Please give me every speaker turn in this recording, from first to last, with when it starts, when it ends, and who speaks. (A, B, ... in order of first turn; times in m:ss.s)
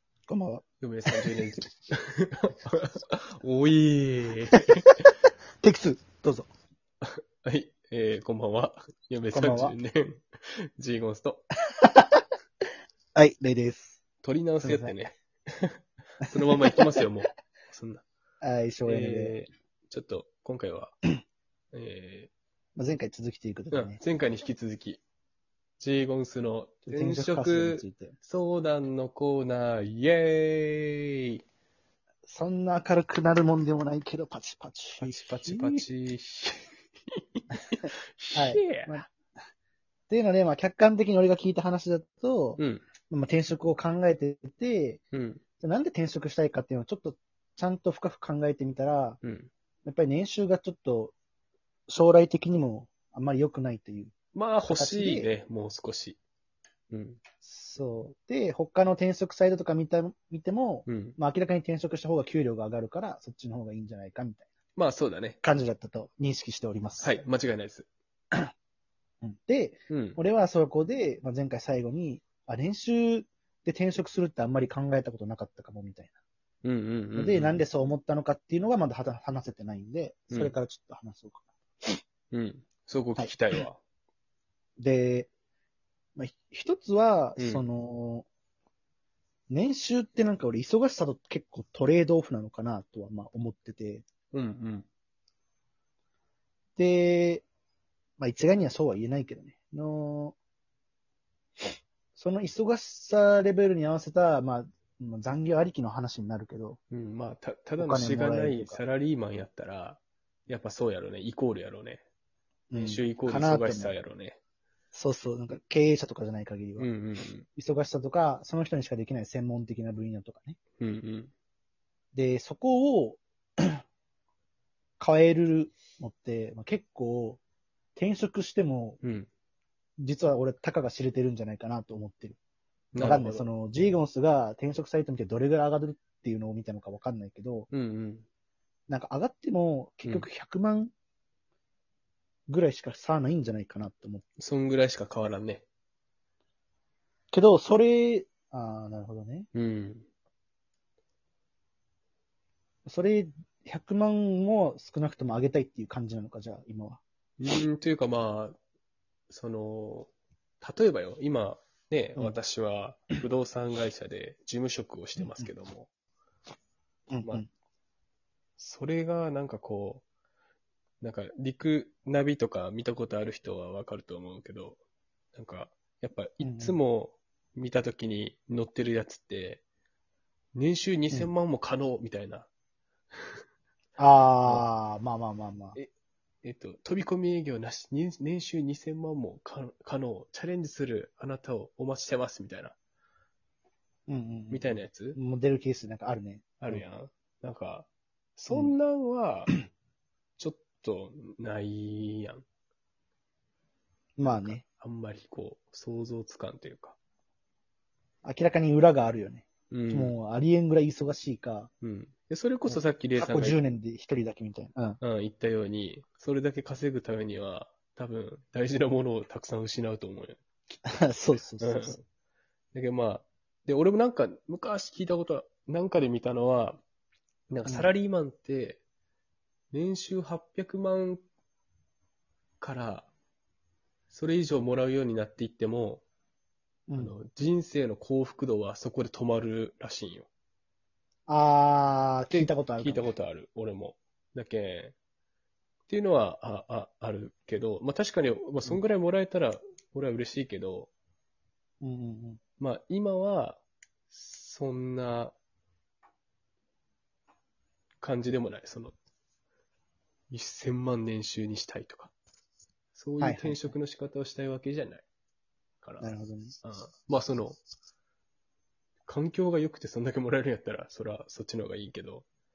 0:00.3-0:01.4 A
0:00.8-0:05.1 B
0:05.6-0:06.5 A
0:07.0-0:11.4 B
0:09.3-0:09.8 A
0:11.8-0:12.2 A
0:13.2-0:14.0 A
0:14.2-0:18.0 B
0:14.6-0:15.0 A
0:16.2-0:16.8 A
0:18.4-0:19.4 A
0:18.9-0:21.0 B
0:21.7-0:22.3 B
0:22.8-0:24.0 A
0:23.7-0:25.0 B
0:25.8-0:31.4 B
0:26.9-0:28.2 A
0:32.3-0:35.8 A
0:35.0-0:39.0 B
0:38.3-0:39.1 A
0:40.1-0:45.0 A
0:42.6-0:42.8 B
0:45.1-0:45.4 B
0:45.6-0:49.2 A
0:49.2-0:49.5 B
0:49.8-0:51.1 A
0:51.9-0:54.1 A
0:54.3-0:56.2 B
0:54.7-0:55.3 A
0:56.9-0:57.2 B
0:57.4-1:04.5 A
1:00.9-1:01.2 B
1:04.8-1:05.4 B
1:05.4-1:07.2 A
1:07.0-1:07.9 B
1:09.2-1:16.1 A
1:09.9-1:10.2 B
1:16.6-1:17.6 B
1:17.2-1:22.0 A
1:20.3-1:20.6 B
1:22.3-1:23.8 B
1:24.8-1:25.3 A
1:26.2-1:28.3 A
1:27.4-1:27.7 B
1:29.5-1:34.0 A
1:34.3-1:34.8 B
1:36.8-1:37.4 A
1:38.2-1:40.4 A
1:42.2-1:46.8 A
1:46.9-1:52.0 B
1:47.8-1:48.8 A
1:52.7-1:54.0 A
1:52.8-1:54.4 B
1:54.9-1:56.9 A
1:56.8-1:57.4 B
1:57.5-2:00.6 A
2:00.8-2:01.3 B
2:02.1-2:03.8 A
2:05.0-2:07.4 A
2:08.0-2:09.0 A
2:09.0-2:09.3 B
2:10.0-2:12.4 A
2:12.9-2:13.5 B
2:13.0-2:17.7 A
2:17.7-2:18.3 B
2:18.9-2:20.9 A
2:22.5-2:24.2 A
2:24.4-2:25.6 B
2:27.3-2:29.5 A
2:29.5-2:30.1 B
2:32.9-2:37.0 A
2:37.4-2:38.6 B
2:39.3-2:45.9 B
2:45.2-2:45.5 A
2:47.1-2:47.5 A
2:48.6-2:50.0 B
2:51.0-2:54.8 B
2:55.3-2:59.6 B
2:56.4-2:56.8 A
3:00.6-3:02.5 B
3:04.0-3:05.8 A
3:06.4-3:12.8 B
3:14.1-3:16.8 A
3:14.5-3:15.2 B
3:16.6-3:19.5 B
3:20.4-3:22.4 B
3:24.2-3:24.6 A
3:24.2-3:27.0 B
3:28.2-3:31.7 A
3:29.7-3:30.2 B
3:31.8-3:33.6 B
3:32.7-3:35.0 A
3:35.0-3:40.8 B
3:40.9-3:42.0 A
3:41.6-3:42.0 B
3:42.7-3:46.8 B
3:47.5-3:48.8 B
3:47.6-3:47.9 A
3:49.7-3:51.2 B
3:52.6-3:53.1 B
3:54.1-3:56.0 B
3:56.9-3:57.2 A
3:57.0-4:00.3 B
4:01.3-4:03.1 A
4:02.3-4:05.0 B
4:05.9-4:10.9 B
4:11.8-4:12.4 A
4:12.6-4:15.4 B
4:18.0-4:19.0 B
4:20.3-4:22.1 B
4:22.9-4:25.0 B
4:23.2-4:23.8 A
4:25.8-4:26.1 B
4:26.0-4:26.6 A
4:26.6-4:27.6 B
4:29.1-4:32.2 B